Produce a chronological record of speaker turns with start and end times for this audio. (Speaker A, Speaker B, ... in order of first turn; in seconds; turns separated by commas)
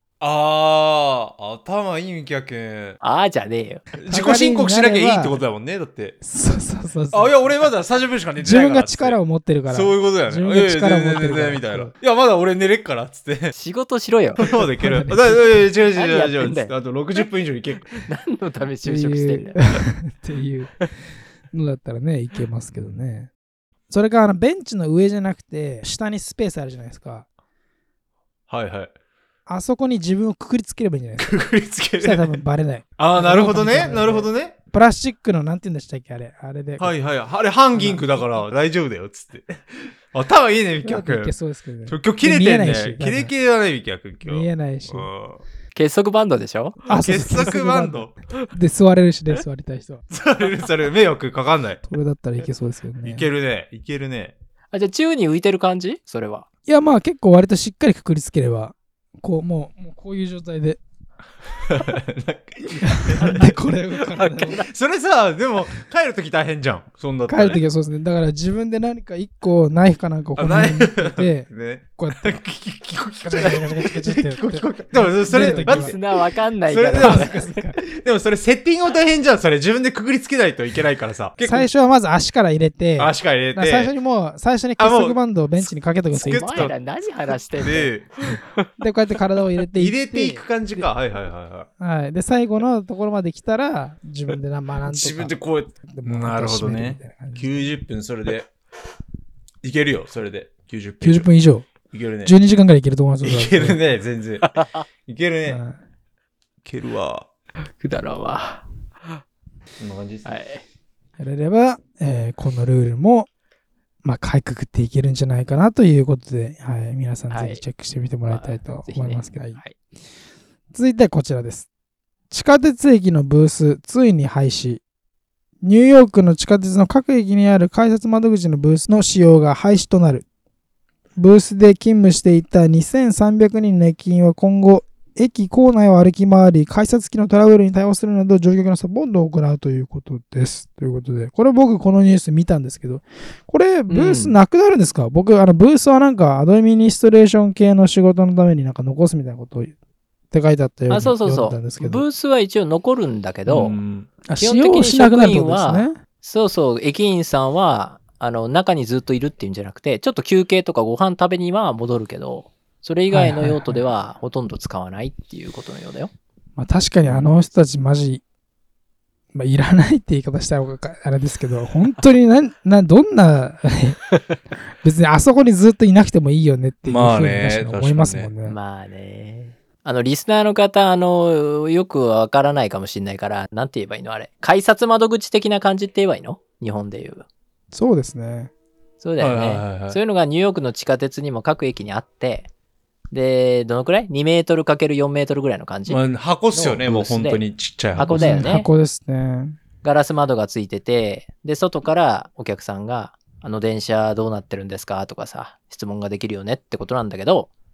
Speaker A: 0.2-3.0, Speaker B: 3.0-3.9, Speaker A: 4.0-6.2, Speaker C: 4.1-5.4, Speaker C: 6.2-7.7, Speaker A: 7.1-13.5, Speaker C: 8.4-11.9, Speaker B: 13.5-14.4, Speaker A: 14.4-17.9, Speaker C: 14.6-15.7, Speaker B: 15.9-16.7, Speaker B: 17.9-19.8, Speaker C: 18.8-20.9, Speaker C: 21.5-23.3, Speaker C: 23.9-27.2, Speaker A: 28.5-28.9, Speaker C: 29.5-31.3, Speaker A: 31.2-32.4, Speaker C: 32.0-36.9, Speaker A: 33.0-34.5, Speaker A: 36.8-41.3, Speaker C: 37.7-38.4, Speaker C: 40.8-43.3, Speaker A: 41.9-45.4, Speaker C: 44.2-45.1, Speaker B: 45.7-46.8, Speaker C: 46.9-50.0, Speaker A: 46.9-48.1, Speaker A: 50.1-51.8, Speaker C: 51.9-53.3, Speaker A: 53.0-54.3, Speaker B: 54.7-56.5, Speaker C: 56.7-60.8, Speaker A: 61.6-63.5, Speaker C: 62.8-64.6, Speaker B: 63.2-63.5, Speaker B: 64.1-64.7, Speaker A: 64.7-67.6, Speaker C: 67.3-72.4, Speaker A: 70.4-76.0, Speaker C: 73.2-76.0, Speaker B: 75.3-77.5, Speaker A: 76.7-81.7, Speaker C: 77.0-77.8, Speaker C: 81.4-86.7, Speaker A: 83.0-83.9, Speaker A: 84.8-86.7, Speaker B: 86.1-88.7, Speaker A: 87.6-88.1, Speaker C: 88.8-90.9, Speaker A: 89.8-91.7, Speaker C: 91.8-95.3, Speaker A: 94.8-98.5, Speaker C: 95.9-97.7, Speaker A: 99.6-101.3, Speaker C: 101.0-101.7, Speaker A: 101.9-102.3, Speaker C: 102.2-103.8, Speaker A: 103.2-104.5, Speaker B: 104.4-104.8, Speaker A: 105.0-105.6, Speaker C: 105.5-105.8, Speaker A: 106.6-107.2, Speaker B: 107.8-108.6, Speaker A: 109.8-110.3, Speaker B: 110.2-110.6, Speaker C: 111.2-113.3, Speaker C: 114.0-119.6, Speaker B: 117.3-117.6, Speaker B: 118.3-119.8, Speaker C: 120.7-121.7, Speaker C: 122.3-124.8, Speaker C: 125.6-130.2, Speaker C: 131.2-149.7, Speaker B: 143.9-144.4, Speaker C: 150.3-152.0, Speaker B: 150.9-153.8, Speaker A: 153.5-154.1, Speaker C: 154.2-155.9, Speaker B: 154.4-166.1, Speaker C: 163.1-163.8, Speaker C: 166.6-168.2, Speaker C: 169.3-174.0, Speaker C: 174.8-178.6, Speaker A: 176.8-178.3, Speaker B: 178.4-187.2, Speaker C: 187.7-188.5, Speaker B: 189.0-192.5, Speaker A: 189.2-190.0, Speaker B: 193.1-197.4, Speaker A: 195.9-198.5, Speaker B: 197.9-198.7, Speaker C: 198.0-199.6, Speaker B: 199.8-207.5